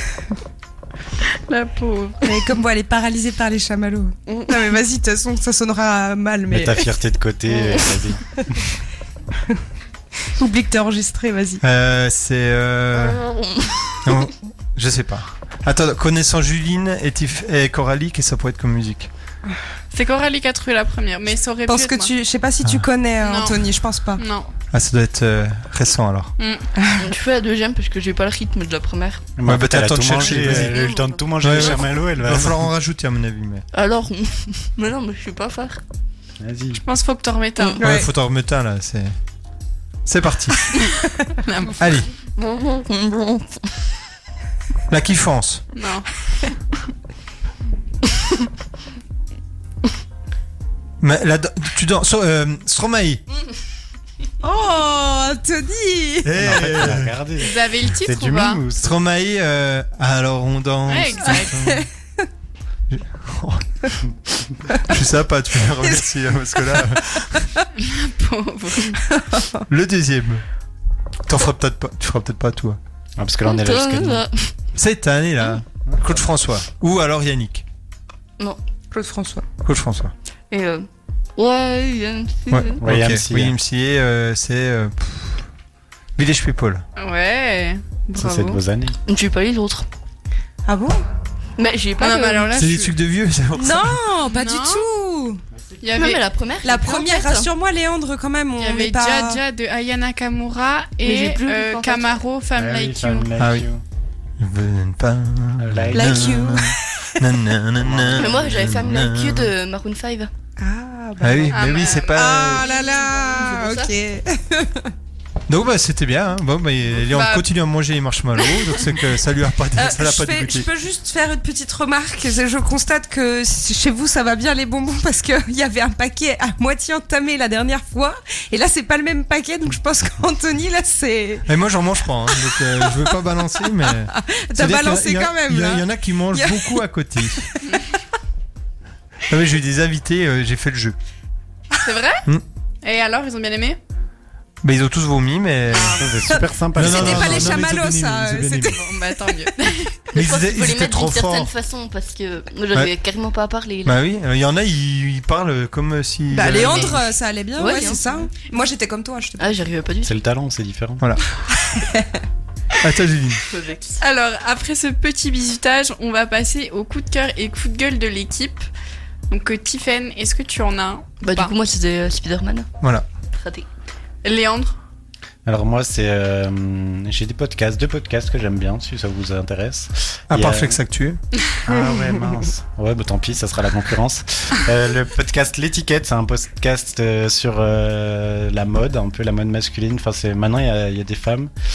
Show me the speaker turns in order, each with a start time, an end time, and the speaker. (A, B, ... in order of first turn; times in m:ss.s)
0:01.5-0:02.3 A
0:02.2-0:06.9 B
0:06.5-0:08.6 C
0:10.3-0:11.6 B
0:11.6-0:13.2 D
0:13.2-0:13.9 E
0:14.0-0:19.1 D
0:19.9-0:22.1 A
0:21.7-0:24.2 B
0:23.2-0:24.5 A
0:24.7-0:26.3 D
0:26.4-0:26.7 A
0:26.8-0:27.1 B
0:27.0-0:29.2 E
0:29.4-0:32.7 C
0:29.4-0:30.8 D
0:30.5-0:31.2 A
0:31.4-0:33.6 D
0:33.7-0:35.8 E
0:36.4-0:36.8 C
0:36.8-0:37.8 A
0:37.8-0:38.1 B
0:37.8-0:39.1 D
0:40.0-0:40.8 D
0:40.7-0:41.8 A
0:41.8-0:42.1 D
0:42.4-0:43.6 E
0:44.9-0:45.6 D
0:45.7-0:46.1 A
0:51.0-0:53.2 D
0:54.4-0:56.4 B
0:56.2-0:57.1 D
0:56.4-0:59.0 C
0:57.4-0:58.6 A
0:58.8-1:01.9 D
1:00.9-1:01.5 A
1:01.2-1:01.9 B
1:02.9-1:03.6 D
1:04.7-1:07.4 D
1:05.8-1:06.1 B
1:06.7-1:07.6 B
1:07.8-1:09.0 A
1:09.1-1:09.6 B
1:09.7-1:10.4 D
1:11.2-1:12.8 D
1:13.2-1:14.2 C
1:13.5-1:14.5 E
1:14.7-1:17.6 D
1:15.8-1:16.3 C
1:18.9-1:19.4 B
1:19.6-1:20.1 D
1:20.5-1:22.8 E
1:22.5-1:25.5 D
1:22.8-1:23.6 C
1:26.2-1:26.8 D
1:27.0-1:28.6 A
1:28.1-1:29.0 C
1:29.0-1:29.8 E
1:30.6-1:31.0 B
1:31.6-1:32.5 E
1:32.0-1:33.0 A
1:32.5-1:34.0 D
1:33.6-1:35.4 B
1:34.2-1:34.8 A
1:35.8-1:36.2 A
1:35.9-1:37.5 E
1:36.6-1:39.4 B
1:38.6-1:43.3 A
1:41.0-1:42.2 E
1:42.5-1:43.8 C
1:43.4-1:43.7 D
1:44.4-1:49.5 D
1:45.6-1:46.7 C
1:45.9-1:47.2 B
1:47.8-1:48.4 C
1:48.1-1:50.3 E
1:50.6-1:54.9 B
1:51.2-1:52.7 D
1:51.5-1:53.0 A
1:52.6-1:53.9 E
1:55.5-2:00.7 D
1:56.9-1:57.4 A
1:59.7-2:11.5 B
2:11.5-2:17.5 D
2:12.3-2:17.6 B
2:19.3-2:20.9 D
2:21.8-2:22.2 A
2:22.8-2:23.8 A
2:24.6-2:26.2 D
2:26.0-2:27.7 C
2:26.7-2:28.8 D
2:26.8-2:28.8 B
2:28.7-2:29.9 A
2:30.1-2:31.5 D
2:30.1-2:34.0 E
2:33.8-2:37.0 D
2:36.3-2:39.6 B
2:36.6-2:36.9 A
2:37.6-2:38.2 E
2:39.4-2:40.1 E
2:40.0-2:41.0 C
2:41.7-2:42.2 B
2:42.8-2:43.4 D
2:43.5-2:44.0 E
2:44.0-2:48.7 A
2:49.3-2:51.5 A
2:51.2-2:52.7 E
2:53.3-2:53.7 E
2:54.2-2:54.8 A
2:55.4-3:00.8 C
3:00.3-3:01.2 D
3:01.6-3:11.5 C